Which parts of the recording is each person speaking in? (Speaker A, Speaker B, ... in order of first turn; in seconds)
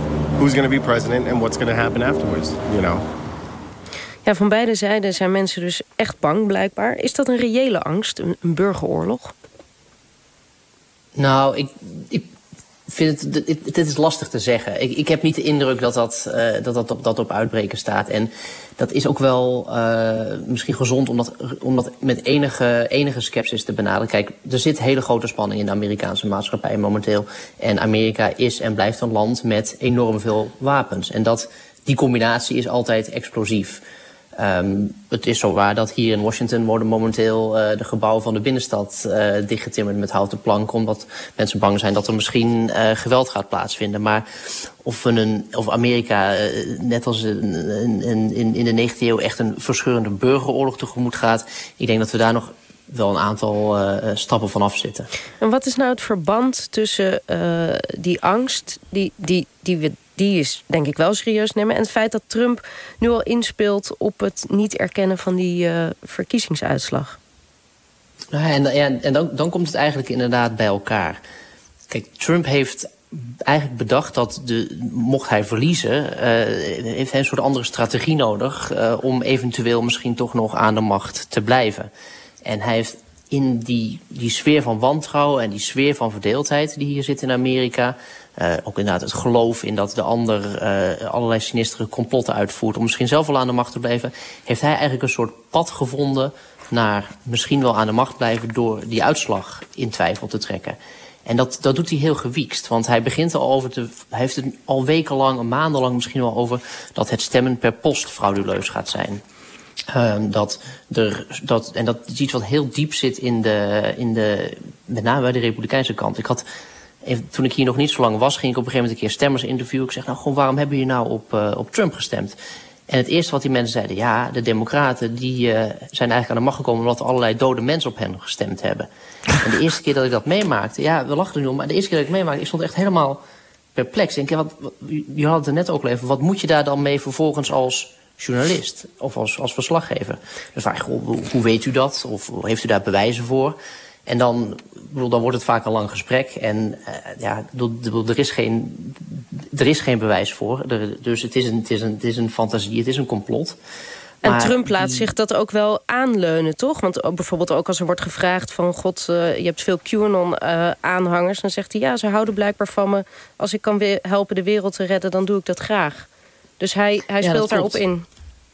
Speaker A: 0.3-3.0
Speaker B: 4.2-9.3, 55.4-67.2, 154.2-166.1, 166.6-168.0
Speaker C: 11.2-12.3, 12.9-33.8, 34.4-44.2, 44.8-55.1, 68.3-71.2, 71.9-81.9, 82.4-109.2, 109.9-116.4, 117.0-122.4, 122.9-128.9, 129.4-133.2, 133.7-153.6, 154.2-155.0, 167.2-167.8